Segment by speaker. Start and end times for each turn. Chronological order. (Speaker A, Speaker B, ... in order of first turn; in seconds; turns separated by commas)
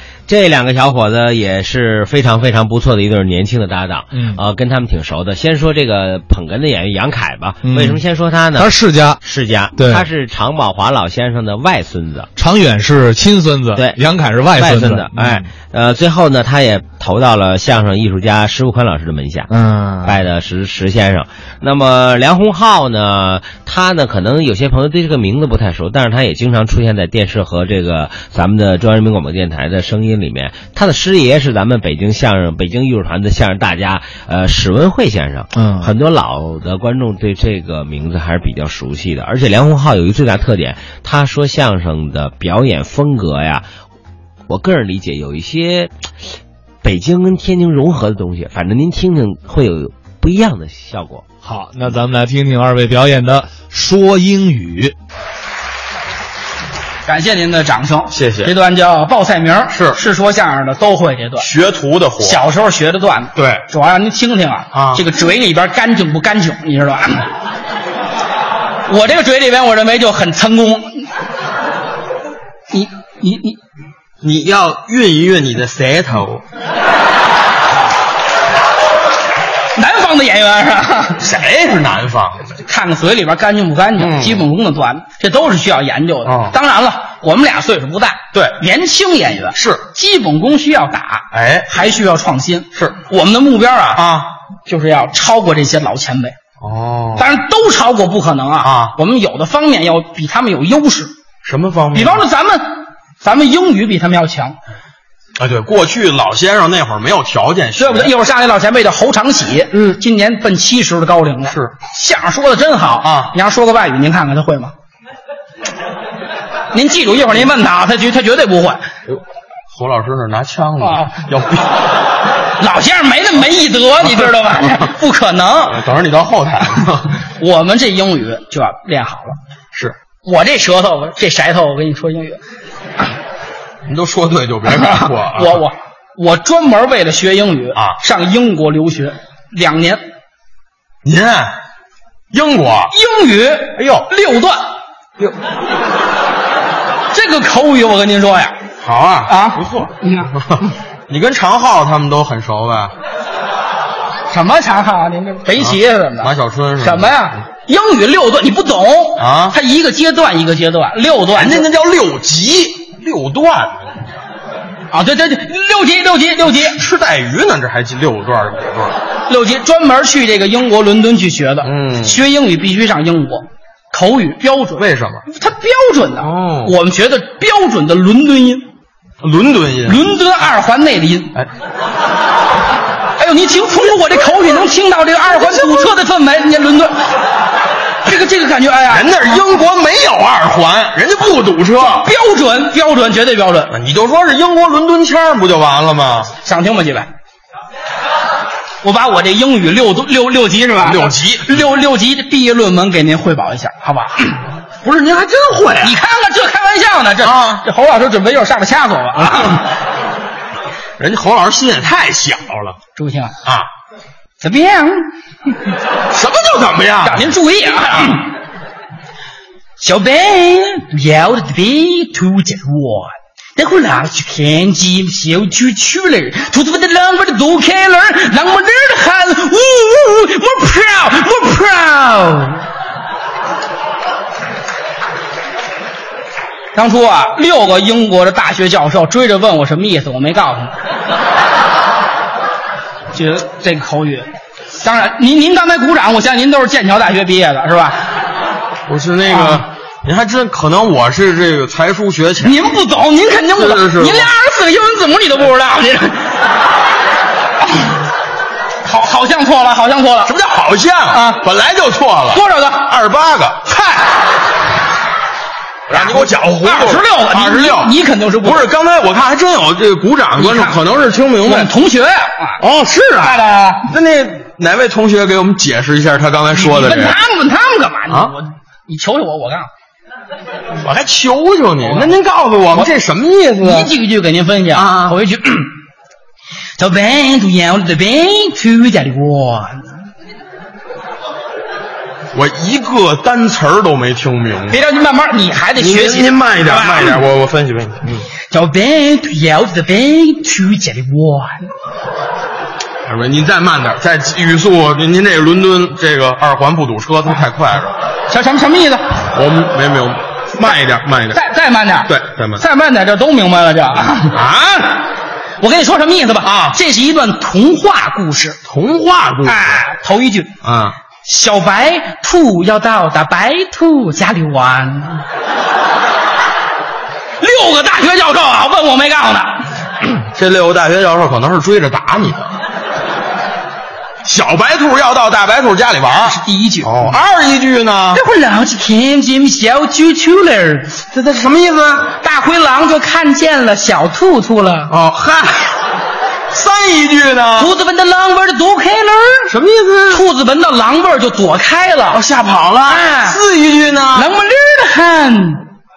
Speaker A: 0.3-12.3, Speaker B: 4.1-4.4, Speaker B: 7.6-8.0, Speaker B: 8.6-9.2, Speaker B: 9.8-10.1, Speaker B: 12.4-15.5, Speaker A: 13.8-14.0, Speaker A: 14.5-19.5, Speaker B: 19.5-20.2, Speaker A: 20.0-43.7, Speaker B: 35.5-35.9, Speaker A: 44.5-45.9, Speaker A: 46.8-51.2, Speaker B: 51.4-54.9, Speaker C: 57.1-61.5, Speaker D: 58.1-58.5, Speaker D: 59.7-60.0, Speaker D: 61.4-62.4, Speaker C: 62.2-67.3, Speaker D: 63.4-63.6, Speaker D: 64.7-65.0, Speaker C: 68.9-71.1, Speaker C: 72.7-73.6, Speaker D: 74.2-76.4, Speaker C: 79.8-81.2, Speaker D: 81.2-82.5, Speaker C: 82.6-94.0, Speaker D: 84.0-84.4, Speaker D: 86.2-86.5, Speaker D: 89.5-89.8, Speaker D: 91.3-91.8, Speaker D: 92.8-93.0, Speaker D: 94.0-94.3, Speaker C: 94.7-96.3, Speaker D: 96.6-97.3, Speaker C: 97.2-101.1, Speaker D: 98.6-99.0, Speaker D: 101.4-102.2, Speaker C: 101.9-104.6, Speaker D: 105.4-108.1, Speaker C: 107.8-114.7, Speaker D: 113.0-113.3, Speaker C: 116.7-118.9, Speaker D: 119.7-121.8, Speaker C: 120.8-121.1, Speaker C: 122.6-125.8, Speaker D: 125.7-127.2, Speaker C: 127.3-129.4, Speaker C: 130.2-132.4, Speaker D: 133.9-135.6, Speaker C: 134.8-140.0, Speaker D: 141.0-141.6, Speaker D: 142.3-142.9, Speaker C: 142.9-144.7, Speaker D: 143.8-144.1, Speaker C: 147.1-148.6, Speaker D: 148.8-152.9, Speaker C: 149.3-150.3, Speaker C: 154.3-161.7, Speaker D: 155.6-157.2, Speaker D: 159.2-159.6, Speaker D: 161.3-163.9, Speaker C: 164.9-166.8, Speaker D: 166.5-169.0, Speaker C: 169.3-178.7, Speaker D: 171.6-172.2, Speaker D: 174.8-175.2, Speaker D: 176.2-176.7, Speaker D: 179.2-180.0, Speaker C: 179.9-181.3, Speaker C: 183.2-187.1, Speaker D: 185.2-185.9, Speaker C: 188.0-189.1, Speaker D: 188.9-192.1, Speaker C: 191.8-193.7, Speaker D: 193.7-196.3, Speaker C: 196.4-197.1, Speaker C: 198.8-204.4, Speaker D: 200.8-201.5, Speaker D: 204.8-206.0, Speaker C: 205.8-209.7, Speaker D: 207.2-207.6, Speaker D: 211.0-212.8, Speaker C: 212.9-213.4, Speaker C: 214.4-215.1, Speaker D: 216.1-217.3, Speaker C: 217.0-218.3, Speaker C: 219.8-232.7, Speaker C: 236.7-240.7, Speaker C: 243.1-248.0, Speaker D: 248.9-252.6, Speaker C: 252.4-256.4, Speaker D: 253.6-254.3, Speaker C: 258.8-260.3, Speaker D: 260.3-263.7, Speaker C: 261.1-261.4, Speaker C: 262.3-262.9, Speaker C: 263.7-264.1, Speaker D: 265.9-271.7, Speaker C: 265.9-268.7, Speaker C: 270.4-270.8, Speaker C: 271.4-272.6, Speaker D: 272.6-277.2, Speaker C: 273.2-273.9, Speaker C: 276.5-279.7, Speaker D: 280.8-283.9, Speaker C: 281.8-282.1, Speaker C: 283.6-285.7, Speaker D: 284.8-285.2, Speaker C: 286.8-289.9, Speaker D: 292.3-294.8, Speaker C: 294.7-297.2, Speaker D: 295.8-298.3, Speaker C: 298.5-301.7, Speaker D: 303.1-307.9, Speaker C: 308.3-309.2, Speaker D: 309.3-311.4, Speaker C: 311.3-314.4, Speaker D: 312.1-312.6, Speaker D: 314.3-314.9, Speaker C: 315.6-318.6, Speaker D: 316.4-316.8, Speaker D: 318.7-319.8, Speaker C: 319.4-320.5, Speaker D: 320.6-320.9, Speaker C: 321.2-325.2, Speaker C: 327.4-329.7, Speaker D: 330.3-332.5, Speaker D: 334.2-338.2, Speaker C: 336.3-337.1, Speaker C: 338.1-341.0, Speaker D: 341.1-342.1, Speaker C: 342.1-344.9, Speaker D: 344.9-345.7, Speaker D: 346.5-347.7, Speaker C: 347.6-349.5, Speaker D: 349.5-350.2, Speaker C: 350.1-352.2, Speaker D: 352.1-354.3, Speaker C: 352.9-353.4, Speaker C: 354.1-355.7